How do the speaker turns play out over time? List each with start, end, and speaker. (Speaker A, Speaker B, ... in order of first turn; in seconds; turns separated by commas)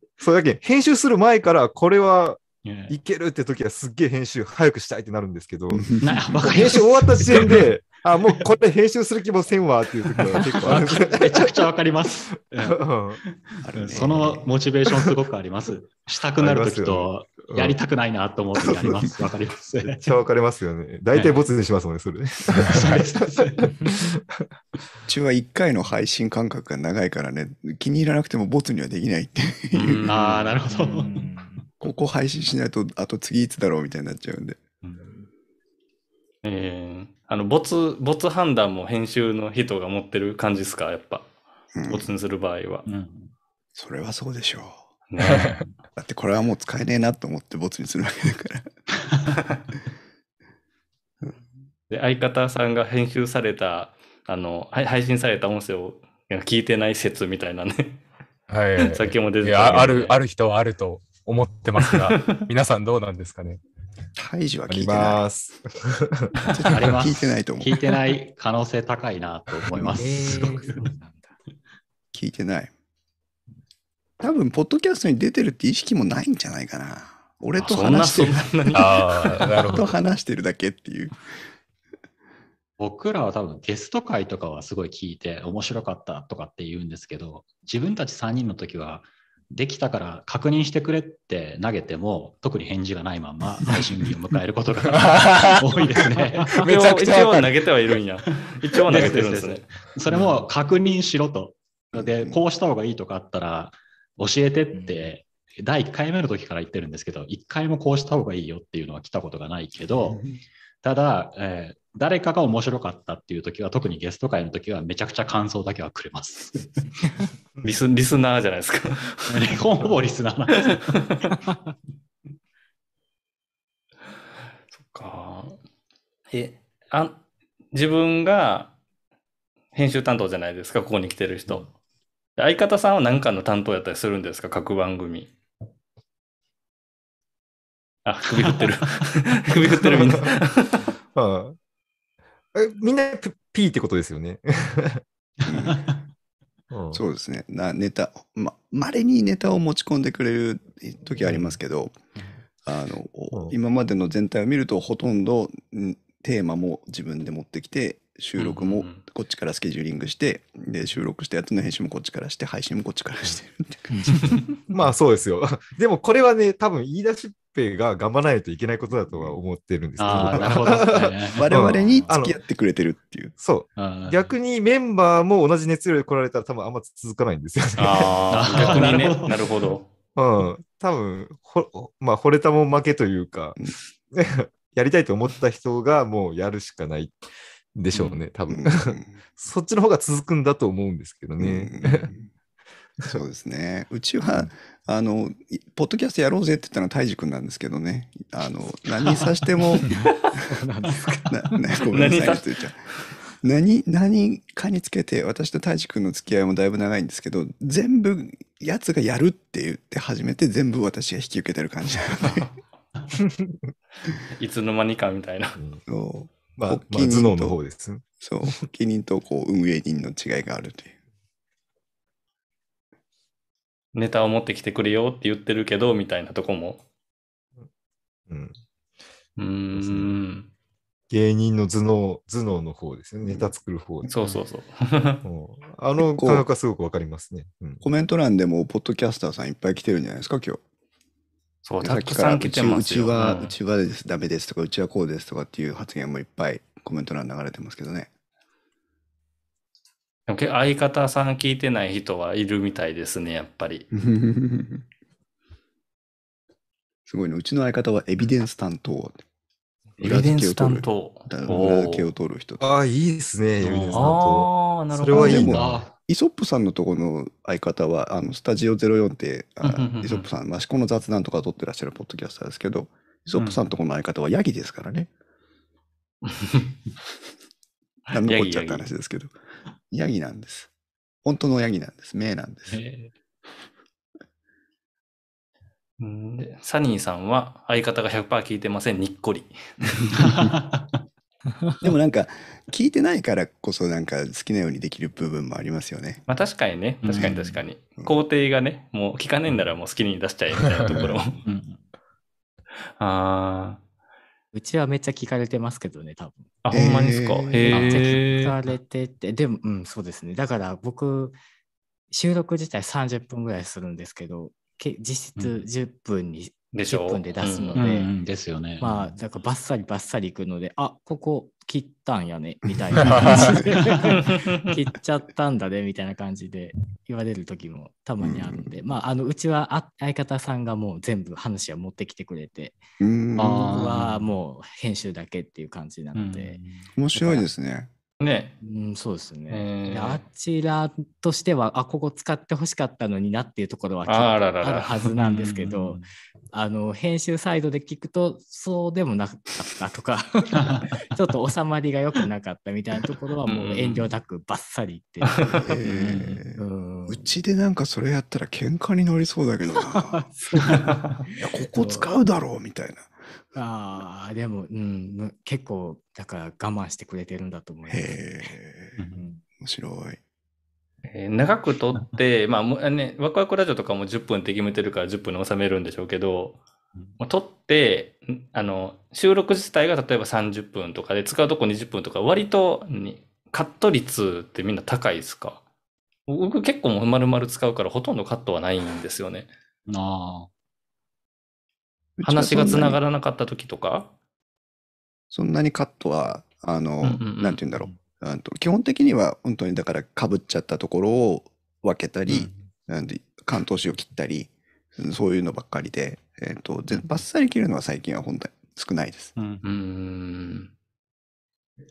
Speaker A: 0.2-11.7, Speaker B: 2.6-3.0, Speaker C: 5.7-6.0, Speaker B: 6.0-7.8, Speaker B: 10.1-20.2, Speaker A: 12.4-13.2, Speaker C: 13.6-14.5, Speaker A: 16.4-17.8, Speaker A: 18.6-19.2, Speaker A: 19.8-24.5, Speaker B: 21.1-21.5, Speaker B: 22.6-23.6, Speaker C: 25.1-30.1, Speaker D: 29.7-30.6, Speaker B: 30.0-31.3, Speaker E: 30.7-31.6, Speaker C: 31.8-34.6, Speaker B: 34.8-35.3, Speaker D: 36.4-41.3, Speaker C: 41.7-42.1, Speaker D: 41.9-42.9, Speaker B: 42.9-43.3, Speaker C: 43.8-44.8, Speaker D: 45.1-45.6, Speaker B: 45.2-45.7, Speaker F: 45.3-45.6, Speaker C: 46.0-48.7, Speaker D: 51.9-58.0, Speaker F: 58.5-63.6, Speaker D: 58.8-60.2, Speaker D: 61.8-62.5, Speaker C: 64.2-65.3, Speaker A: 64.7-66.3, Speaker C: 66.5-67.8, Speaker B: 66.7-70.9, Speaker E: 70.0-71.4, Speaker C: 72.1-72.7, Speaker C: 74.2-78.7, Speaker D: 77.6-79.7, Speaker F: 78.7-79.8, Speaker C: 79.7-81.2, Speaker B: 82.8-96.7, Speaker F: 95.0-95.7, Speaker F: 96.6-97.5, Speaker D: 96.6-99.7, Speaker B: 98.2-116.9, Speaker A: 98.9-99.6, Speaker C: 102.0-102.4, Speaker E: 104.8-105.1, Speaker D: 117.6-119.5, Speaker B: 119.3-121.0, Speaker D: 120.7-121.3, Speaker D: 124.8-125.6, Speaker D: 126.3-128.8, Speaker D: 129.8-131.7, Speaker D: 132.4-135.3, Speaker D: 138.1-140.8, Speaker B: 138.4-138.8, Speaker A: 139.9-140.2, Speaker A: 141.2-141.6, Speaker A: 142.5-145.0, Speaker C: 145.5-145.8, Speaker B: 145.5-146.0, Speaker A: 146.7-147.0, Speaker C: 146.9-152.0, Speaker C: 152.6-164.1, Speaker D: 158.4-159.0, Speaker B: 163.9-164.4, Speaker A: 164.7-172.4, Speaker C: 169.1-169.4, Speaker B: 170.0-171.8, Speaker C: 170.2-170.5, Speaker C: 171.3-173.3, Speaker A: 173.4-178.8, Speaker B: 173.7-174.3, Speaker D: 177.8-179.9, Speaker B: 178.3-179.6, Speaker A: 180.2-187.2, Speaker A: 187.7-192.1, Speaker D: 187.9-188.2, Speaker C: 188.5-189.2, Speaker C: 191.4-192.3, Speaker C: 193.0-199.9, Speaker E: 200.0-201.3, Speaker C: 201.2-202.8, Speaker D: 201.9-202.5, Speaker C: 203.4-212.5, Speaker A: 213.2-213.7, Speaker D: 214.4-215.6, Speaker A: 215.6-215.8, Speaker C: 215.9-217.6, Speaker A: 216.6-218.0, Speaker C: 218.2-220.9, Speaker D: 223.9-226.8, Speaker A: 228.3-228.6, Speaker D: 229.4-230.5, Speaker A: 229.7-230.1, Speaker A: 231.1-234.1, Speaker C: 233.2-233.5, Speaker D: 234.1-235.2, Speaker A: 235.2-237.8, Speaker C: 236.0-236.5, Speaker C: 237.8-240.6, Speaker D: 241.7-243.5, Speaker C: 241.8-248.1, Speaker D: 250.3-253.9, Speaker C: 253.9-254.8, Speaker C: 257.1-259.2, Speaker C: 260.0-262.7, Speaker D: 260.0-262.1, Speaker A: 262.6-265.8, Speaker D: 263.6-265.6, Speaker C: 265.1-275.1, Speaker B: 265.4-265.9, Speaker D: 269.6-270.3, Speaker B: 273.4-273.7, Speaker D: 276.2-276.8, Speaker C: 278.1-279.3, Speaker D: 278.1-278.9, Speaker C: 279.9-280.7, Speaker C: 281.2-282.8, Speaker B: 282.7-283.1, Speaker D: 286.0-290.1, Speaker B: 290.1-290.9, Speaker C: 291.8-296.2, Speaker D: 296.3-301.3, Speaker B: 297.0-297.6, Speaker B: 301.4-301.8, Speaker D: 303.0-303.8, Speaker E: 304.5-306.5, Speaker D: 306.6-308.5, Speaker C: 306.7-307.9, Speaker E: 307.7-311.4, Speaker E: 312.1-318.1, Speaker B: 315.4-315.6, Speaker D: 316.7-317.9, Speaker B: 317.8-319.1, Speaker E: 318.8-332.8, Speaker C: 322.7-323.7, Speaker F: 323.0-323.5, Speaker B: 323.3-324.1, Speaker D: 324.3-324.6, Speaker C: 328.2-328.8, Speaker C: 333.0-333.7, Speaker B: 333.4-334.3, Speaker E: 333.4-336.6, Speaker B: 336.1-336.9, Speaker C: 337.0-337.9, Speaker E: 337.1-337.5, Speaker D: 338.2-338.6, Speaker E: 338.6-346.0, Speaker D: 339.5-340.2, Speaker D: 344.1-344.9, Speaker B: 345.2-346.1, Speaker E: 346.5-356.0, Speaker B: 350.6-350.9, Speaker D: 353.5-354.1, Speaker C: 355.7-360.3, Speaker B: 355.9-356.4, Speaker E: 356.5-357.3, Speaker E: 359.9-360.3, Speaker E: 361.3-362.1, Speaker C: 361.4-363.1, Speaker E: 363.5-368.2, Speaker C: 367.9-369.0, Speaker E: 369.1-369.4, Speaker C: 369.6-370.2, Speaker D: 371.1-376.6, Speaker D: 377.2-385.6, Speaker D: 386.3-389.5, Speaker B: 389.9-390.5, Speaker C: 392.2-393.0, Speaker D: 392.2-394.1, Speaker C: 395.3-409.3, Speaker D: 397.0-397.6, Speaker B: 409.4-409.6, Speaker D: 409.6-410.7